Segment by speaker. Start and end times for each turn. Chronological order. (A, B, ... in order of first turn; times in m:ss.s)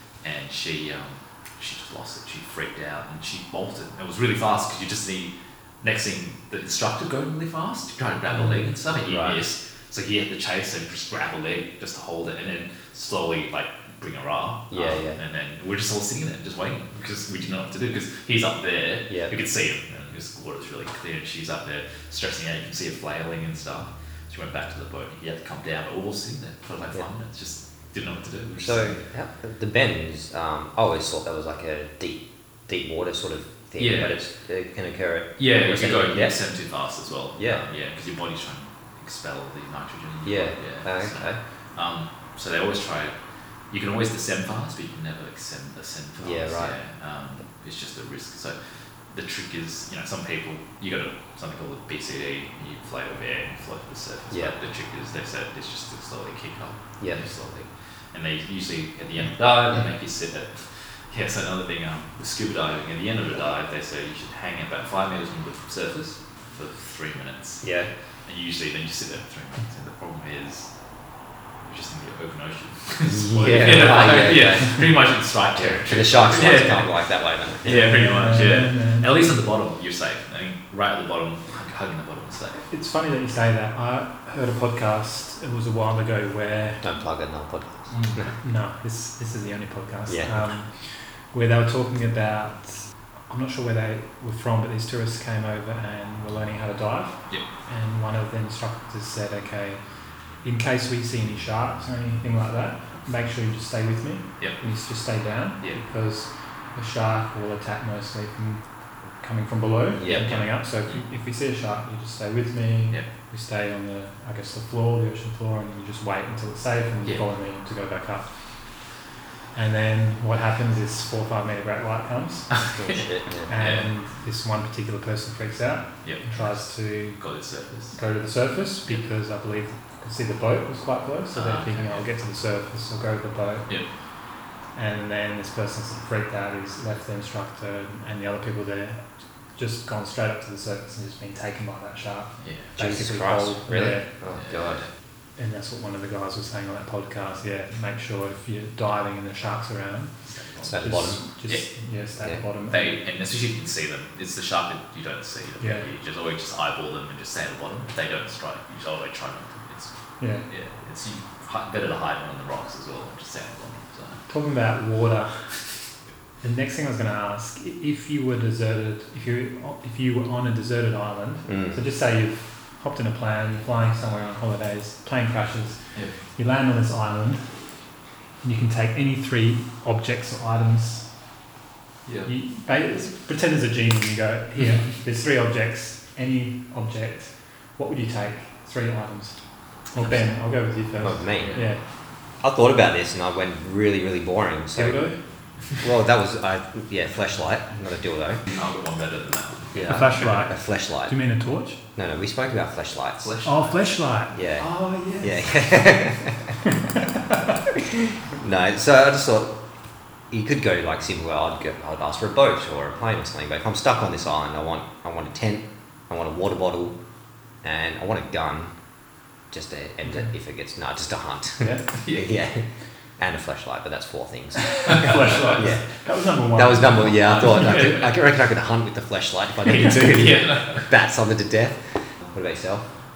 0:00.2-0:29.0 A
0:08.9-0:09.4 B
0:14.7-0:15.2 B
0:19.1-0:19.4 B
0:28.6-0:36.4 B
0:33.8-0:34.2 A
0:35.4-0:43.1 A
0:37.4-0:37.6 B
0:40.2-0:41.4 B
0:43.7-0:48.6 A
0:46.2-0:46.8 B
0:49.1-1:07.7 A
1:07.6-1:07.9 B
1:08.3-1:10.7 A
1:11.6-1:16.9 A
1:13.0-1:14.8 B
1:15.6-1:18.0 B
1:17.6-1:22.6 A
1:17.7-1:19.3 C
1:22.7-1:26.8 C
1:26.8-1:28.3 B
1:27.9-1:28.3 A
1:28.4-1:30.7 C
1:30.1-1:30.5 B
1:31.3-1:39.8 C
1:40.4-1:48.6 C
1:49.2-1:58.3 C
1:50.0-1:50.3 B
1:50.1-1:51.0 A
1:59.5-2:02.5 C
2:02.6-2:03.9 A
2:02.7-2:03.5 B
2:03.5-2:07.2 C
2:06.0-2:08.0 A
2:07.9-2:13.7 C
2:11.3-2:12.1 A
2:14.8-2:24.1 C
2:22.4-2:22.7 A
2:22.8-2:24.9 B
2:24.3-2:24.9 A
2:25.4-2:30.1 C
2:30.3-2:30.8 A
2:30.6-2:31.2 B
2:30.8-2:33.0 C
2:32.7-2:39.9 A
2:35.6-2:35.9 C
2:40.2-2:40.5 C
2:40.5-2:44.2 A
2:44.3-2:45.4 C
2:46.4-2:55.8 C
2:51.5-2:51.8 B
2:56.4-2:57.4 C
2:58.4-3:01.0 C
3:02.1-3:02.3 A
3:02.3-3:09.4 C
3:09.9-3:11.8 C
3:11.0-3:11.6 B
3:11.4-3:11.7 A
3:12.4-3:15.1 B
3:14.8-3:15.2 C
3:15.8-3:18.4 B
3:18.5-3:20.3 A
3:19.7-3:21.2 B
3:19.9-3:21.8 C
3:22.0-3:23.4 B
3:23.2-3:23.7 A
3:23.4-3:25.4 C
3:24.3-3:24.7 B
3:25.2-3:26.5 B
3:28.0-3:29.6 B
3:30.3-3:37.0 B
3:37.6-3:38.7 B
3:39.5-3:42.7 B
3:42.0-3:42.3 A
3:43.2-3:45.8 B
3:44.8-3:47.9 C
3:44.9-3:45.6 A
3:46.5-3:52.9 B
3:47.2-3:48.1 A
3:49.8-3:50.9 A